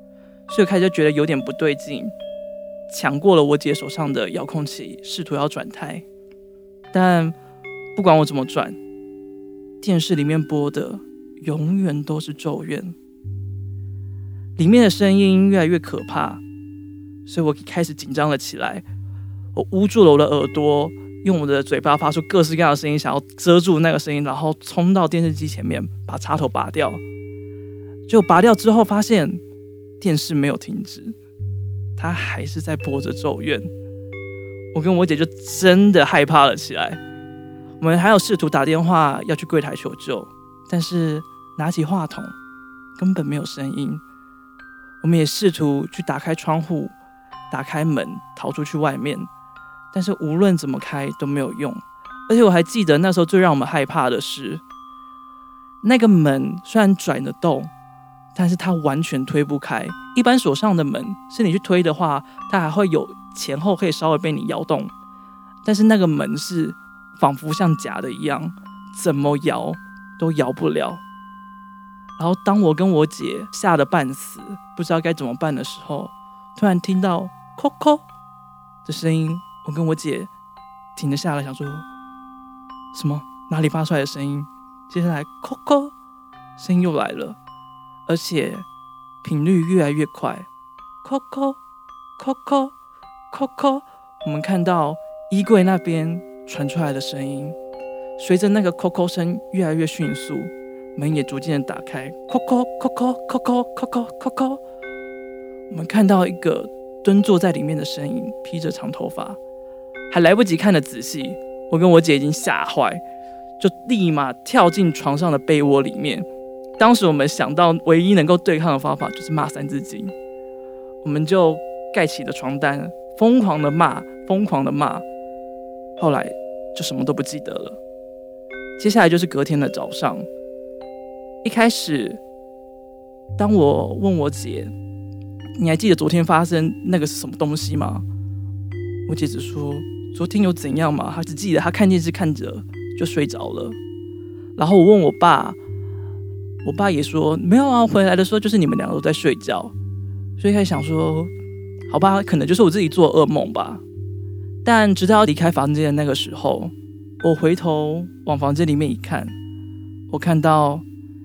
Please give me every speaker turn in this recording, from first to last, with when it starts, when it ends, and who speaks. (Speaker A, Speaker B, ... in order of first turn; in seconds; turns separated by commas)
Speaker A: 0.5-2.1, Speaker A: 2.9-6.0, Speaker A: 6.9-7.3, Speaker A: 8.0-8.8, Speaker A: 9.8-12.9, Speaker A: 14.6-16.4, Speaker A: 17.3-18.8, Speaker A: 19.5-27.0, Speaker A: 28.1-29.4, Speaker A: 30.0-31.1, Speaker A: 32.0-33.7, Speaker A: 34.7-37.0, Speaker A: 37.8-42.3, Speaker A: 43.0-44.0, Speaker A: 45.0-46.9, Speaker A: 47.5-49.3, Speaker A: 49.9-54.6, Speaker A: 55.8-57.7, Speaker A: 58.4-64.9, Speaker A: 65.6-71.0, Speaker A: 72.2-78.0, Speaker A: 78.9-80.3, Speaker A: 81.0-81.8, Speaker A: 82.9-85.9, Speaker A: 86.6-87.4, Speaker A: 88.1-88.6, Speaker A: 89.2-90.5, Speaker A: 91.0-91.6, Speaker A: 92.2-92.7, Speaker A: 93.3-97.5, Speaker A: 98.2-104.6, Speaker A: 105.7-109.4, Speaker A: 110.1-113.0, Speaker A: 113.6-116.2, Speaker A: 116.8-120.1, Speaker A: 121.0-125.0, Speaker A: 126.0-127.8, Speaker A: 128.8-130.3, Speaker A: 131.4-132.2, Speaker A: 133.4-134.7, Speaker A: 135.6-138.0, Speaker A: 139.1-143.8, Speaker A: 144.6-145.6, Speaker A: 146.6-149.7, Speaker A: 150.4-151.3, Speaker A: 151.9-153.8, Speaker A: 154.6-159.3, Speaker A: 160.1-160.8